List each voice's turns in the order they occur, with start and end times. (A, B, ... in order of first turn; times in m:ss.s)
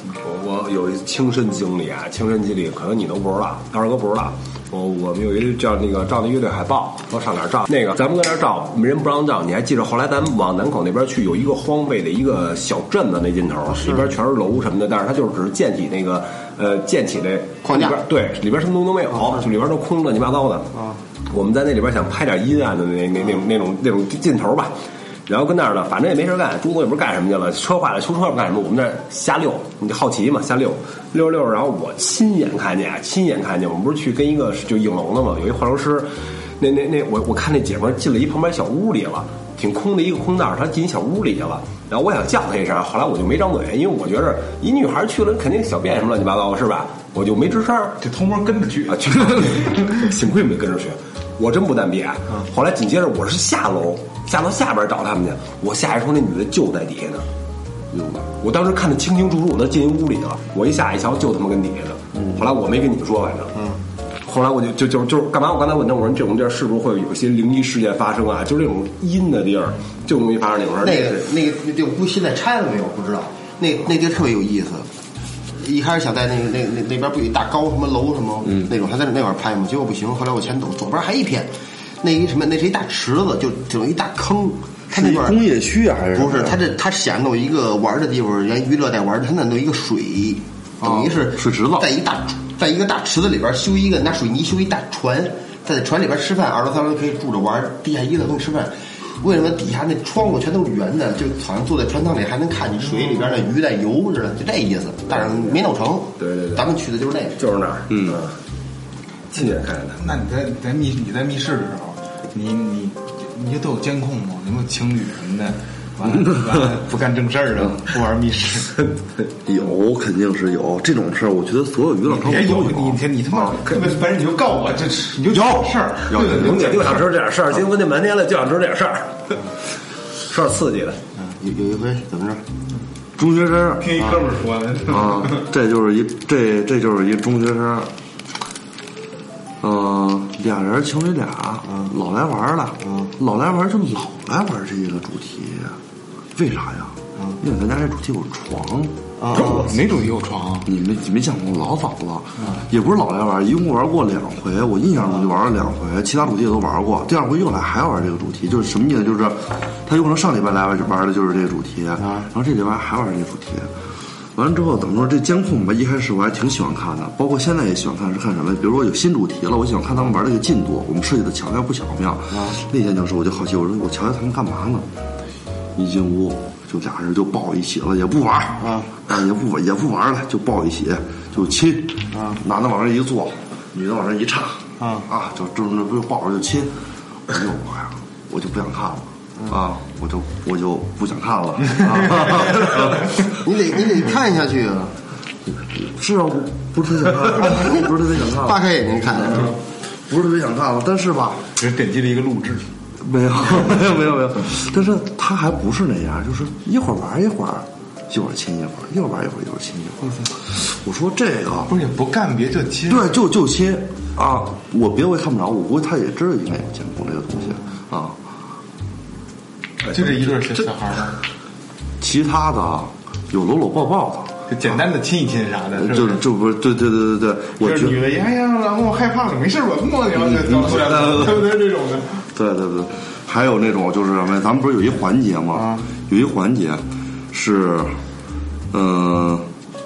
0:00.2-0:20.7 A
0:13.7-0:14.0 B
0:17.6-0:18.0 B
0:20.7-0:21.0 B
0:21.3-0:24.7 A
0:25.3-0:48.0 A
0:48.0-0:50.1 C
0:48.9-0:57.3 A
0:57.9-0:58.3 D
0:58.4-1:03.6 A
1:03.6-1:03.8 B
1:04.2-1:11.3 A
1:10.8-1:14.9 B
1:15.6-1:25.4 B
1:18.4-1:18.7 D
1:24.9-1:26.6 D
1:26.1-1:47.4 B
1:30.8-1:31.9 D
1:45.1-1:45.6 A
1:46.2-1:46.7 A
1:47.4-1:48.4 A
1:47.9-1:48.2 D
1:49.3-1:50.0 A
1:50.0-1:58.8 C
1:56.0-1:56.6 D
1:59.4-2:03.7 D
2:02.0-2:07.0 C
2:05.3-2:07.0 D
2:06.2-2:09.4 A
2:10.3-2:11.0 A
2:11.2-2:12.4 B
2:13.2-2:14.0 D
2:13.8-2:15.5 C
2:14.9-2:17.9 D
2:19.6-2:25.8 D
2:26.3-2:29.7 D
2:29.2-2:29.7 B
2:29.3-2:30.7 C
2:30.6-2:43.7 D
2:42.0-2:42.3 B
2:44.3-2:54.9 D
2:52.3-2:52.6 B
2:55.8-3:06.7 D
2:58.6-2:58.9 B
3:02.1-3:02.4 B
3:04.8-3:05.0 C
3:07.3-3:13.3 D
3:11.7-3:12.7 C
3:13.3-3:15.0 B
3:15.5-3:21.5 D
3:17.3-3:19.6 B
3:21.6-3:22.7 C
3:23.0-3:31.7 D
3:30.0-3:30.3 C
3:31.7-3:33.1 C
3:32.9-3:38.2 D
3:39.9-3:41.2 C
3:42.0-3:44.4 D
3:44.5-3:46.2 C
3:45.7-3:48.0 D
3:47.6-3:52.2 C
3:50.2-3:51.6 D
3:52.3-3:58.0 D
3:58.7-3:59.5 D